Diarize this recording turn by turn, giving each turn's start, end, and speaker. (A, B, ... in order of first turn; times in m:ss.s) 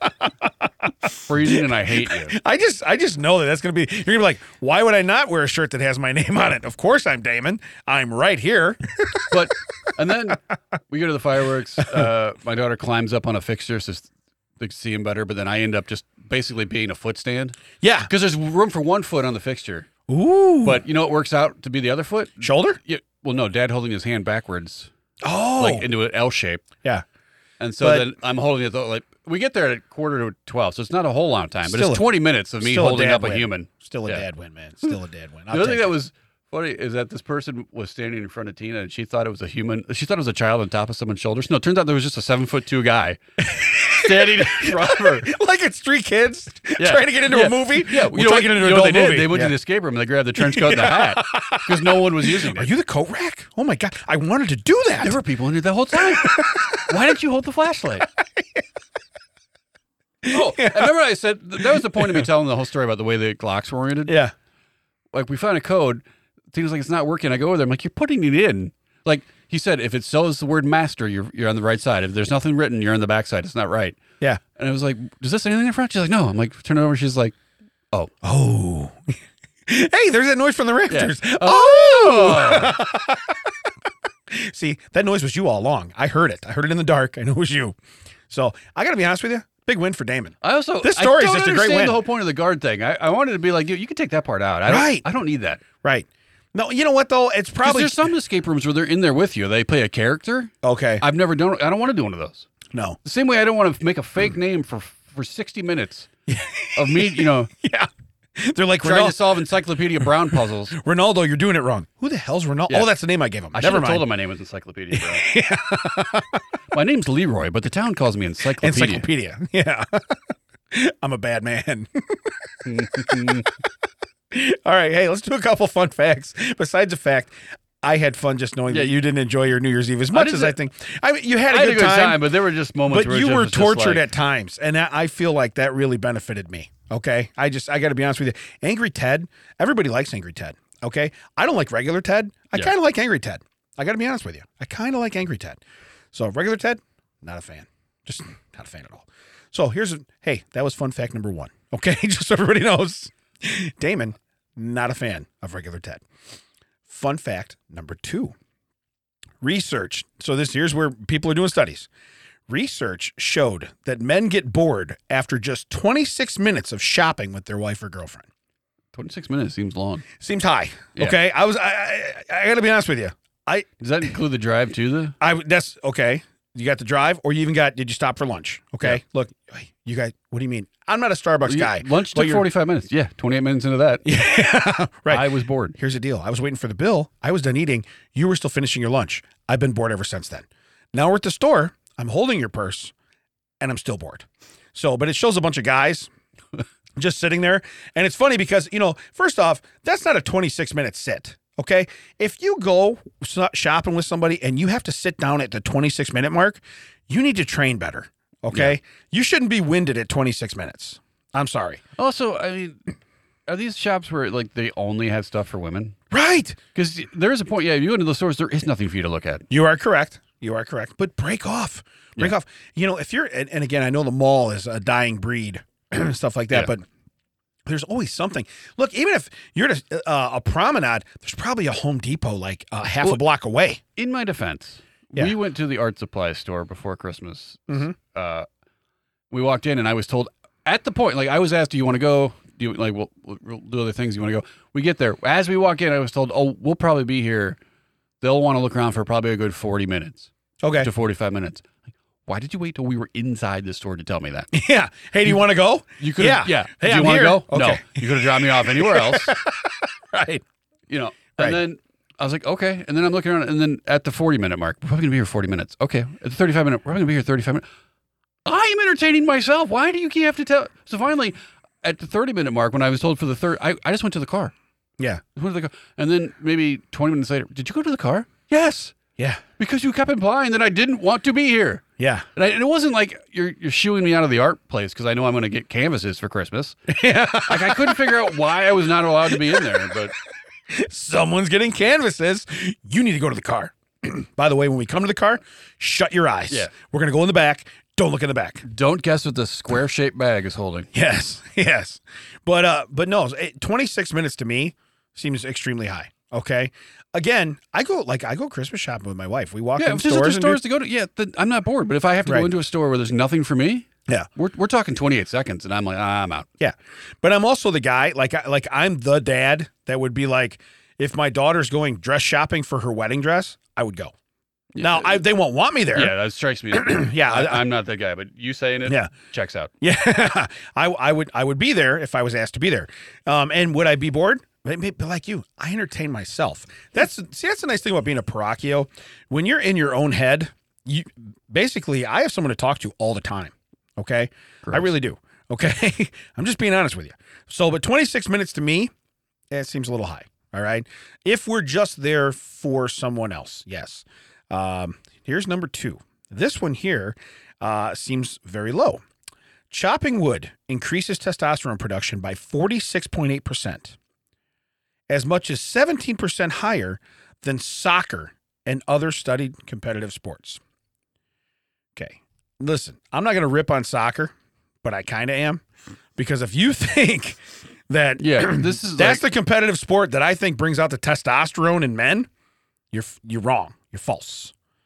0:00.4-0:09.3 A
0:01.2-0:02.3 B
0:09.3-0:19.9 B
0:17.8-0:18.1 A
0:20.1-0:20.8 A
0:20.6-0:24.9 B
0:22.4-0:22.8 A
0:25.2-0:25.9 A
0:25.6-0:26.6 B
0:27.6-0:34.2 B
0:27.8-0:28.1 A
0:31.6-0:32.0 A
0:32.6-0:35.9 A
0:35.5-0:43.2 B
0:43.4-0:49.5 A
0:43.7-0:45.3 B
0:46.8-0:52.7 B
0:50.4-0:55.2 A
0:55.0-0:58.1 B
0:56.2-0:56.9 A
1:00.2-1:00.9 A
1:00.3-1:04.2 B
1:01.7-1:02.2 A
1:04.1-1:04.3 A
1:05.1-1:14.0 B
1:14.5-1:17.3 B
1:18.2-1:23.5 A
1:20.9-1:22.8 B
1:24.3-1:27.8 A
1:28.3-1:32.0 A
1:30.4-1:35.6 B
1:34.7-1:35.0 A
1:35.8-1:38.0 A
1:37.6-1:42.5 B
1:40.6-1:41.0 A
1:42.7-1:43.0 A
1:43.0-1:46.1 B
1:46.3-1:49.3 A
1:46.8-1:47.5 B
1:48.8-1:50.7 B
1:50.7-1:54.0 A
1:53.5-1:55.2 B
1:54.9-1:56.4 A
1:56.7-1:59.1 B
1:58.6-2:00.2 A
2:00.7-2:03.4 A
2:02.6-2:03.5 B
2:04.3-2:12.2 A
2:08.7-2:08.9 B
2:10.1-2:10.6 B
2:11.5-2:14.1 B
2:12.9-2:25.6 A
2:26.1-2:36.0 A
2:36.9-2:38.3 A
2:39.4-2:41.9 A
2:42.5-2:48.3 A
2:48.9-2:50.0 B
2:50.2-2:53.7 A
2:53.8-2:55.2 B
2:55.2-3:02.4 A
3:01.4-3:04.0 B
3:04.0-3:12.9 A
3:05.1-3:05.8 B
3:13.6-3:16.1 A
3:17.0-3:31.8 A
3:32.0-3:32.8 B
3:33.5-3:36.0 B
3:36.1-3:36.6 A
3:36.7-3:39.4 B
3:39.5-3:46.8 A
3:47.6-3:53.8 A
3:54.0-3:58.5 B
3:57.7-3:58.0 A
3:59.3-4:07.6 B
4:08.2-4:11.7 B
4:10.6-4:10.9 A
4:12.2-4:14.5 B
4:14.5-4:20.4 A
4:16.0-4:19.4 B
4:20.9-4:27.6 B
4:28.4-4:34.5 B
4:35.4-4:38.9 B
4:39.2-4:39.4 A
4:39.6-4:41.8 B
4:42.0-4:42.2 A
4:42.4-4:46.8 B
4:46.9-4:48.3 A
4:47.5-4:50.1 B
4:49.4-4:49.8 A
4:50.7-4:58.6 A
4:58.6-5:00.9 B
5:00.9-5:10.6 A
5:09.8-5:16.5 B
5:16.6-5:24.1 A
5:24.7-5:25.2 B
5:24.8-5:26.1 A
5:25.9-5:29.7 B
5:26.7-5:27.6 A
5:28.8-5:29.1 A
5:29.8-5:48.9 A
5:44.6-5:44.9 B
5:49.5-5:59.0 A
5:59.7-6:04.0 A
6:05.1-6:10.6 A
6:12.0-6:15.6 A
6:16.2-6:22.3 A
6:18.2-6:19.2 B
6:22.9-6:24.5 A